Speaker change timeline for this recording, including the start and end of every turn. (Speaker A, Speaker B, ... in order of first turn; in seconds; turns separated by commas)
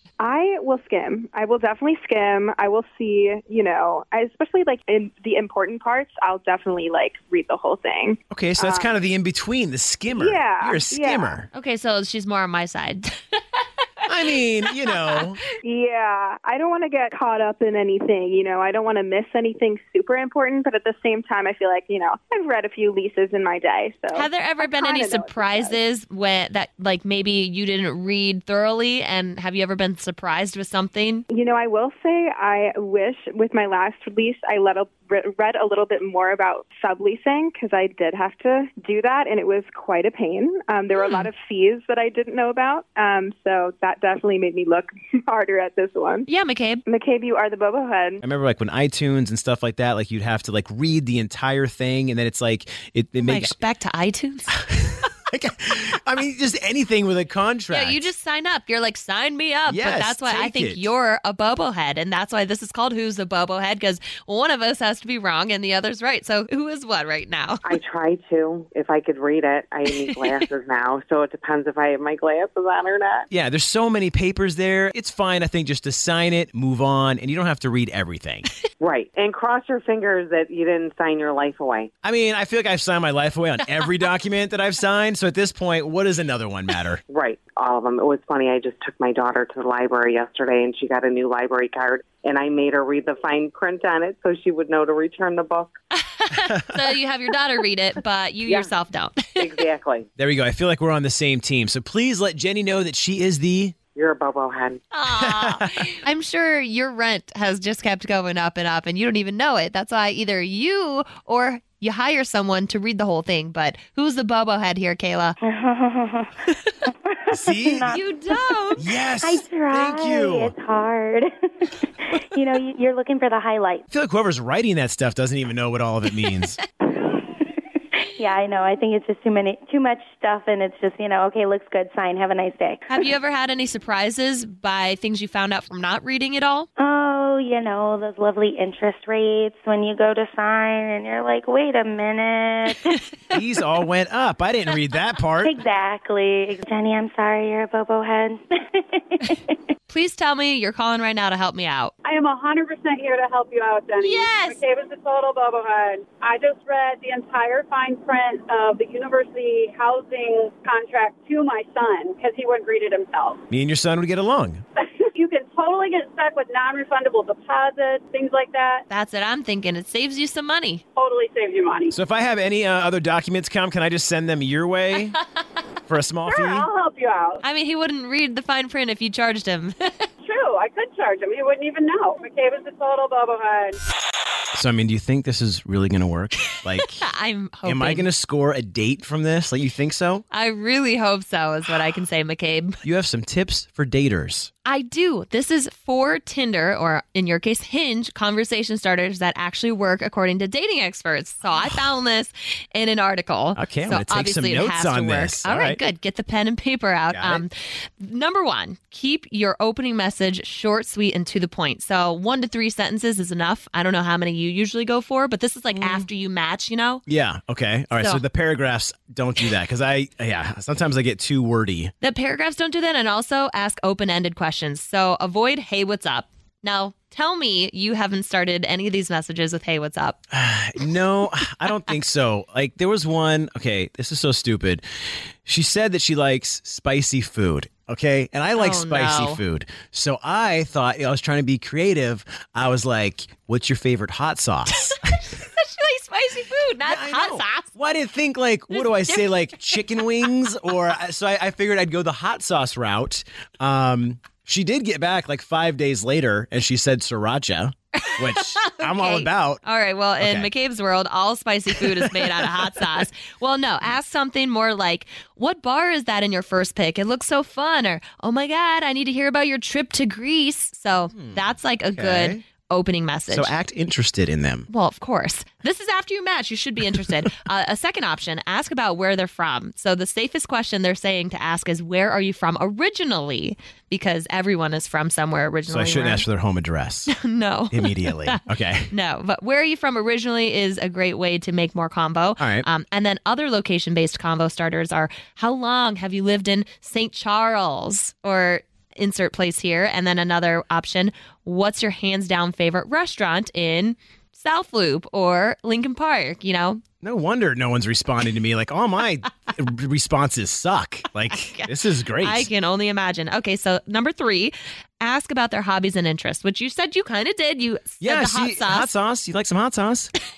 Speaker A: 0.2-9.0, Speaker B: 8.3-11.5, Speaker A: 10.1-11.4, Speaker C: 11.5-13.6, Speaker B: 14.1-15.4, Speaker A: 15.6-25.8, Speaker C: 24.1-31.2, Speaker A: 31.3-46.2, Speaker C: 41.0-41.3, Speaker C: 46.2-46.8, Speaker A: 46.9-48.2, Speaker B: 48.2-53.5, Speaker C: 53.2-54.5, Speaker B: 54.6-58.0, Speaker C: 57.7-67.7, Speaker B: 59.7-60.9, Speaker D: 67.6-73.2, Speaker B: 73.3-78.5, Speaker D: 78.8-81.9, Speaker B: 82.0-87.0, Speaker D: 87.1-95.7, Speaker C: 96.0-99.5, Speaker D: 99.4-100.0, Speaker B: 100.2-103.8, Speaker D: 104.0-104.8, Speaker C: 104.9-115.4, Speaker B: 105.1-105.7, Speaker E: 115.4-118.0, Speaker B: 117.3-118.0, Speaker C: 117.9-118.8, Speaker B: 118.8-120.5, Speaker E: 118.8-123.8, Speaker B: 123.9-126.6, Speaker C: 126.2-126.6, Speaker E: 128.2-132.9, Speaker C: 132.9-136.7, Speaker E: 136.8-143.0, Speaker B: 143.3-145.6, Speaker E: 145.4-149.6, Speaker C: 149.9-151.9, Speaker F: 152.0-163.4, Speaker C: 154.0-154.6, Speaker B: 163.5-164.6, Speaker F: 165.1-168.8, Speaker C: 168.9-170.8, Speaker F: 170.9-171.9, Speaker B: 171.9-175.2, Speaker B: 175.8-176.7, Speaker F: 176.3-177.4, Speaker C: 177.4-180.1, Speaker F: 180.2-183.8, Speaker B: 184.5-187.0, Speaker C: 187.0-188.1, Speaker B: 187.6-190.2, Speaker C: 190.3-192.8, Speaker B: 192.8-194.5, Speaker C: 194.7-217.0, Speaker B: 203.5-205.8, Speaker B: 207.1-207.4, Speaker B: 215.7-216.1, Speaker B: 217.1-221.9, Speaker C: 222.0-230.2, Speaker B: 230.3-234.8, Speaker B: 235.4-244.9, Speaker C: 238.6-239.4, Speaker C: 244.7-247.7, Speaker B: 246.8-259.6, Speaker C: 248.7-250.0, Speaker C: 258.0-273.5, Speaker B: 260.2-260.5, Speaker B: 261.8-262.9, Speaker B: 271.1-272.4, Speaker B: 273.3-274.7, Speaker C: 274.7-286.2, Speaker B: 285.7-287.1, Speaker C: 287.1-306.8, Speaker B: 287.7-288.9, Speaker B: 292.4-292.6, Speaker B: 307.0-312.5, Speaker C: 311.3-318.9, Speaker B: 318.0-320.1